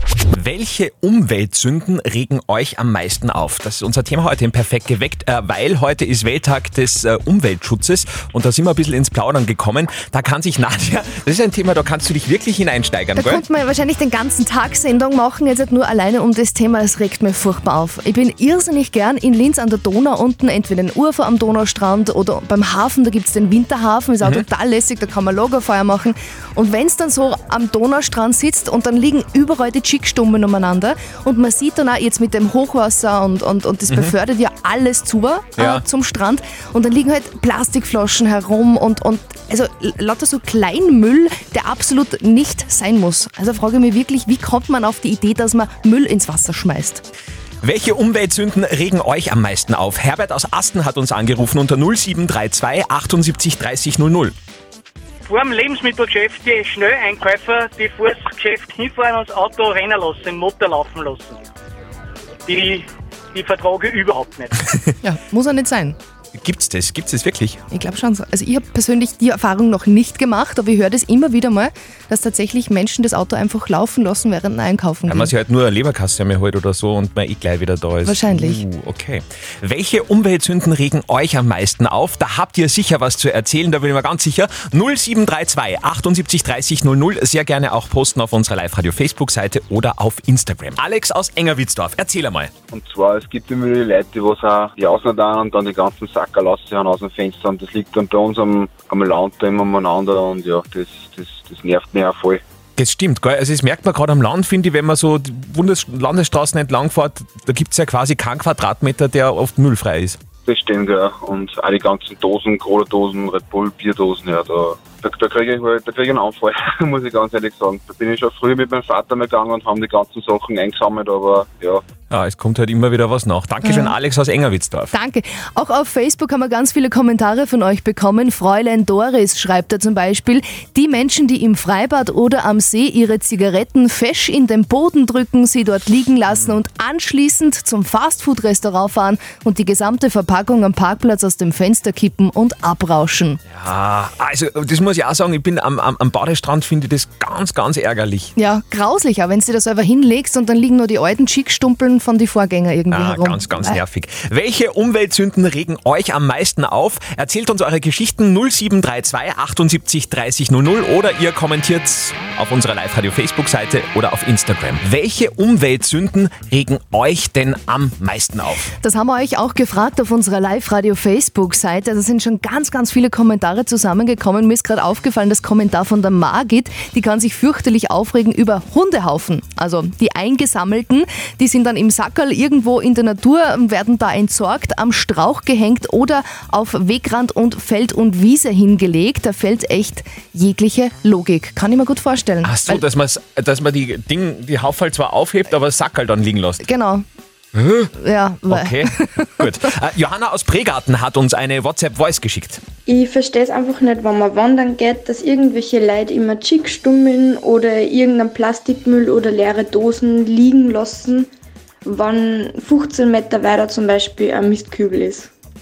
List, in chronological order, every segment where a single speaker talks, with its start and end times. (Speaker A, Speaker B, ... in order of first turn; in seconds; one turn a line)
Speaker A: 0.3-13.4
Speaker B: 13.2-47.0
Speaker A: 35.6-35.8
Speaker A: 47.6-54.3
Speaker C: 55.2-61.4
Speaker C: 62.5-64.6
Speaker B: 65.0-66.0
Speaker A: 66.3-67.6
Speaker B: 67.7-75.3
Speaker A: 75.1-92.5
Speaker B: 78.0-78.6
Speaker D: 92.7-102.4
Speaker A: 102.8-110.2
Speaker D: 110.5-121.8
Speaker A: 122.1-124.9
Speaker B: 123.6-123.9
Speaker B: 124.9-143.4
Speaker A: 143.5-148.3
Speaker B: 148.4-153.8
Speaker A: 152.9-168.7
Speaker B: 168.8-192.8
Speaker A: 192.4-196.6
Speaker B: 196.6-197.0
Speaker A: 197.5-197.9
Speaker B: 198.0-199.4
Speaker A: 198.5-202.6
Speaker E: 202.8-211.3
Speaker E: 211.8-215.3